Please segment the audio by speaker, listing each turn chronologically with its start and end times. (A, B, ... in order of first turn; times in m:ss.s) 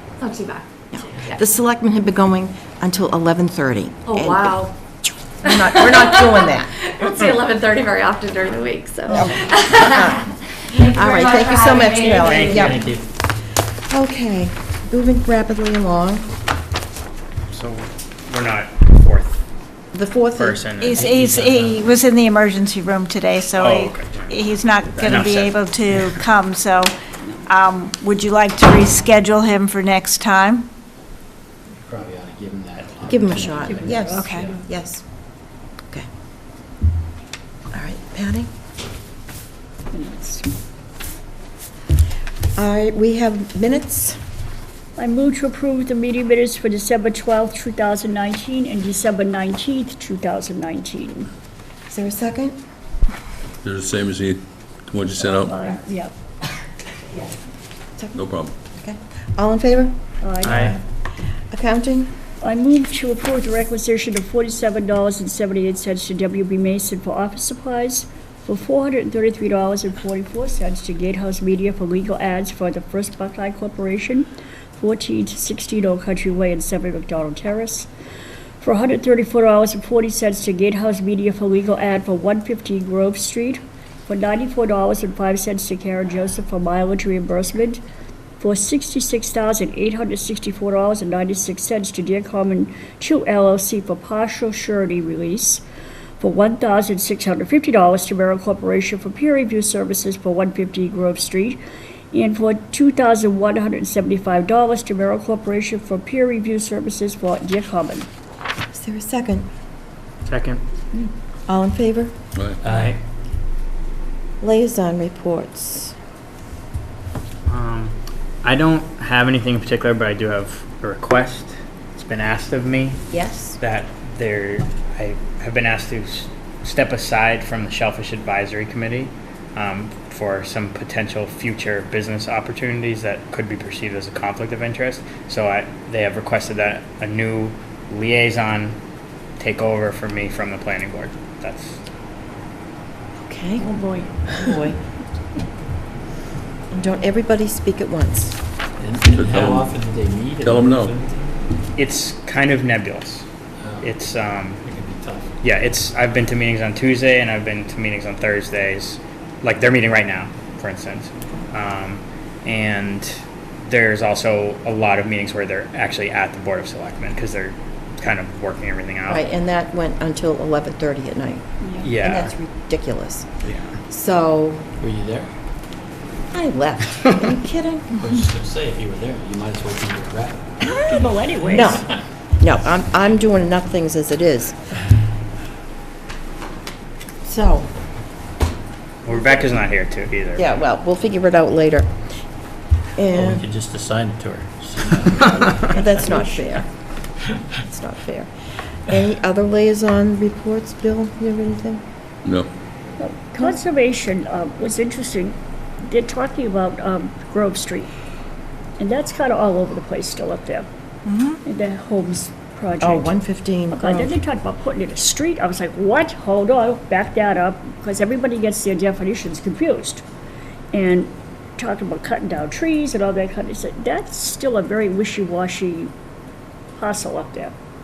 0:00.2-0:00.6 A
0:00.9-0:04.7 B
0:04.1-0:04.7 A
0:05.4-0:06.7 B
0:06.8-0:10.2 A
0:09.1-0:12.8 B
0:10.7-0:12.8 A
0:12.1-0:12.7 C
0:12.7-0:13.0 D
0:13.9-0:16.3 B
0:17.5-0:19.4 C
0:19.9-0:20.6 B
0:20.4-0:21.9 C
0:20.8-0:26.9 E
0:23.6-0:24.3 C
0:24.9-0:26.2 C
0:27.4-0:30.7 E
0:31.7-0:34.4 D
0:33.1-0:35.0 B
0:33.6-0:34.6 F
0:34.0-0:34.4 E
0:37.7-0:38.5 B
0:39.9-0:40.5 F
0:42.6-0:44.2 B
0:45.0-0:51.3 F
0:51.9-0:52.6 B
0:53.6-0:55.6 G
0:55.1-0:56.1 F
0:58.0-1:00.8 B
0:58.1-0:58.5 G
1:00.2-1:00.8 F
1:00.4-1:00.8 C
1:01.5-1:02.1 B
1:02.4-1:17.9 F
1:18.6-1:27.8 F
1:28.4-1:35.6 F
1:36.2-1:48.1 F
1:48.7-1:49.5 B
1:50.2-1:50.6 C
1:51.5-1:52.1 B
1:52.6-1:53.0 C
1:52.7-1:52.9 D
1:54.4-1:55.9 B
1:57.5-2:03.1 C
2:03.1-2:03.6 B
2:03.6-2:18.8 C
2:19.4-2:21.8 C
2:23.3-2:24.8 B
2:26.7-2:28.4 B
2:28.8-2:31.4 D
2:29.1-2:29.7 G
2:30.4-2:31.0 G
2:31.8-2:33.2 C
2:33.6-2:34.0 D
2:33.8-2:34.6 C
2:34.6-2:35.3 D
2:35.4-2:49.3 C
2:49.1-2:51.4 B
2:51.6-2:51.9 F
2:51.8-2:52.3 C
2:52.0-2:53.3 B
2:53.4-2:53.7 C
2:53.9-2:54.6 B
2:54.8-2:55.3 D
2:56.3-2:57.9 B
2:57.9-3:00.6 D
3:00.7-3:01.8 F
3:01.5-3:02.0 D
3:01.5-3:04.6 B
3:07.2-3:07.7 B
3:09.0-3:10.4 C
3:10.3-3:11.9 B
3:13.0-3:13.4 B
3:13.2-3:15.8 D
3:15.5-3:16.7 B
3:17.5-3:18.3 B
3:18.8-3:21.8 B
3:23.0-3:27.9 F
3:28.8-3:30.7 F
3:31.1-3:31.4 E
3:31.4-3:33.1 F
3:32.8-3:34.1 B
3:33.7-3:40.0 F
3:40.7-3:45.9 F
3:46.8-3:47.5 F